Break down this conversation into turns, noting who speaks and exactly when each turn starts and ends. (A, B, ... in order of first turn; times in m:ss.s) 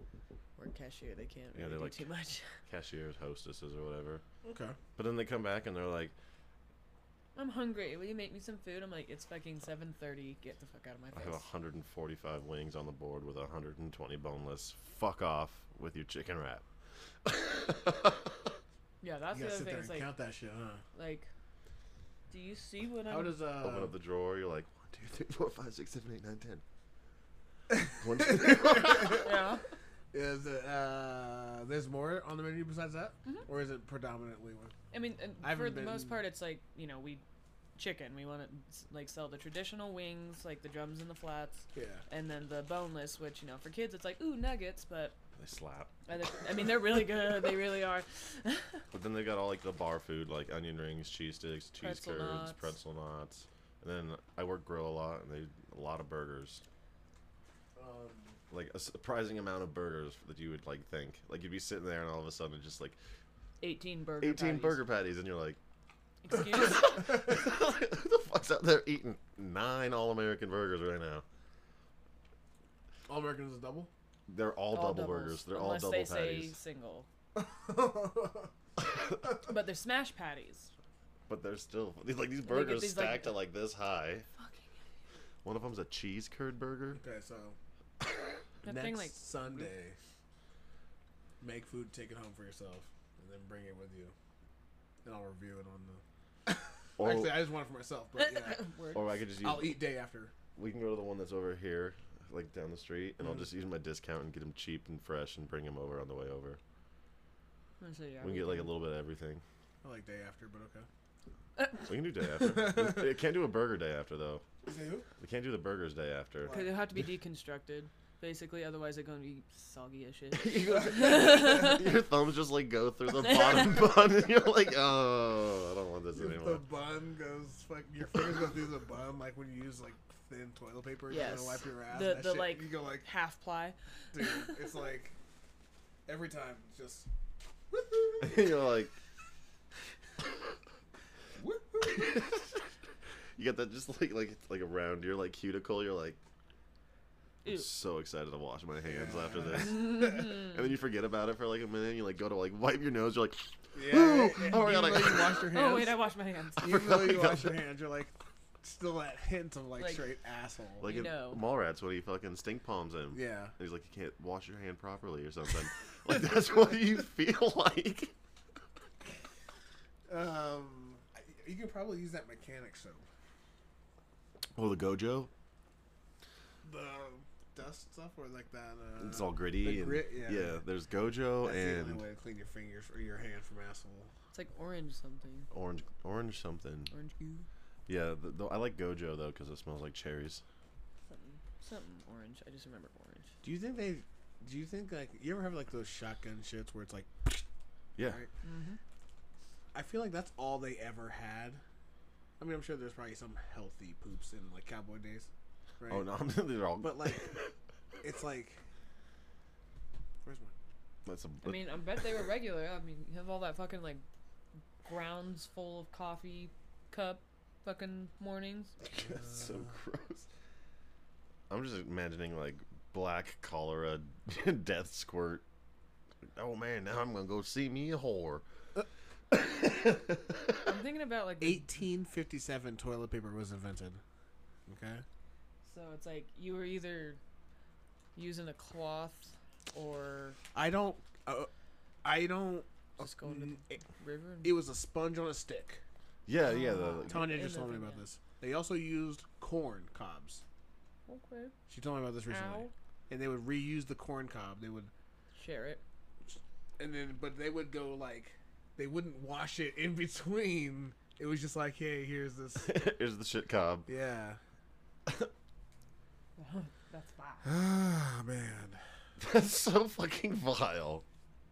0:00.6-0:02.5 A
0:01.5-0:02.1 B
0:02.7-0:04.2 B
0:04.4-0:04.8 C
0:05.0-0:06.1 B
0:07.4-0:11.4 A
0:11.1-0:16.6 B
0:17.2-0:18.5 B
0:19.0-0:20.1 A
0:19.3-0:20.8 C
0:20.9-0:21.3 A
0:22.3-0:23.4 A
0:23.1-0:23.9 C
0:23.6-0:26.6 B
0:27.7-0:29.3 C
0:28.0-0:29.3 B
0:29.1-0:29.6 A
0:30.1-0:34.8 C
0:34.9-0:37.2 A
0:35.4-0:36.2 C
0:37.8-0:45.2 A
0:41.7-0:42.0 C
0:45.4-0:46.0 B
0:46.1-0:48.8 A
0:48.9-0:56.6 B
0:51.8-0:52.7 A
0:57.8-0:58.4 C
0:58.5-1:03.0 B
1:03.6-1:04.8 A
1:04.2-1:05.6 B
1:06.2-1:07.3 A
1:06.5-1:11.2 B
1:13.1-1:13.9 C
1:14.3-1:16.6 B
1:14.7-1:17.1 A
1:17.4-1:18.5 C
1:19.2-1:20.7 A
1:21.3-1:24.3 B
1:22.5-1:23.4 A
1:24.4-1:24.7 A
1:25.4-1:27.0 B
1:27.0-1:27.6 C
1:28.6-1:29.7 A
1:28.6-1:30.0 C
1:31.4-1:34.2 C
1:35.0-1:38.7 C
1:37.0-1:37.4 B
1:38.2-1:39.1 A
1:38.9-1:39.8 B
1:39.4-1:40.3 C
1:40.6-1:46.6 B
1:47.8-1:48.7 A
1:48.2-1:49.4 B
1:49.8-1:50.9 C
1:51.6-1:51.8 A
1:51.9-1:54.4 B
1:52.4-1:53.1 C
1:54.6-1:55.1 C
1:55.2-1:56.6 B
1:56.4-1:56.8 C
1:56.5-2:01.9 A
2:00.4-2:06.6 B
2:03.2-2:03.9 A
2:06.1-2:13.1 C
2:11.1-2:14.6 A
2:14.1-2:15.2 C
2:16.1-2:17.1 C
2:17.7-2:18.5 C
2:18.2-2:19.0 B
2:21.4-2:22.4 C
2:21.9-2:22.6 B
2:23.4-2:26.2 B
2:27.4-2:27.7 A
2:27.5-2:35.5 B
2:28.8-2:29.8 C
2:29.7-2:30.6 A
2:33.7-2:36.0 C
2:35.5-2:36.7 A
2:36.6-2:40.9 C
2:36.6-2:37.6 B
2:39.8-2:40.0 A
2:40.8-2:48.1 B
2:40.8-2:41.4 A
2:43.1-2:43.5 C
2:50.1-2:53.0 C
2:54.6-2:55.3 B
2:56.6-3:00.6 C
2:59.0-3:02.0 B
3:01.4-3:04.1 C
3:04.3-3:05.5 A
3:05.5-3:06.9 B
3:06.9-3:07.5 A
3:07.9-3:10.4 B
3:11.1-3:13.3 A
3:13.4-3:17.4 C
3:18.0-3:18.3 C
3:18.4-3:18.8 A
3:19.7-3:21.6 C
3:22.4-3:25.3 C
3:25.8-3:26.1 C
3:25.9-3:27.5 B
3:26.8-3:27.4 C
3:28.0-3:28.6 C
3:30.2-3:30.5 C
3:31.0-3:31.8 B
3:31.4-3:34.0 A
3:34.8-3:38.8 A
3:38.8-3:40.3 B
3:41.5-3:45.4 B
3:46.3-3:48.4 B
3:49.3-3:50.6 B
3:50.6-3:51.7 A
3:51.4-3:54.0 C
3:54.7-3:55.0 C
3:55.6-3:57.2 A
3:58.2-4:00.4 A
4:00.5-4:01.5 C
4:02.0-4:03.8 C
4:03.0-4:04.6 A
4:04.4-4:05.8 C
4:06.3-4:07.4 B
4:06.4-4:08.0 A
4:07.1-4:10.4 C
4:11.1-4:11.5 A
4:11.7-4:14.9 C
4:12.3-4:12.7 A
4:15.4-4:15.8 A
4:16.8-4:22.8 C
4:22.6-4:23.9 B
4:23.9-4:24.4 C
4:26.4-4:27.5 A
4:27.4-4:28.8 C
4:29.2-4:31.0 B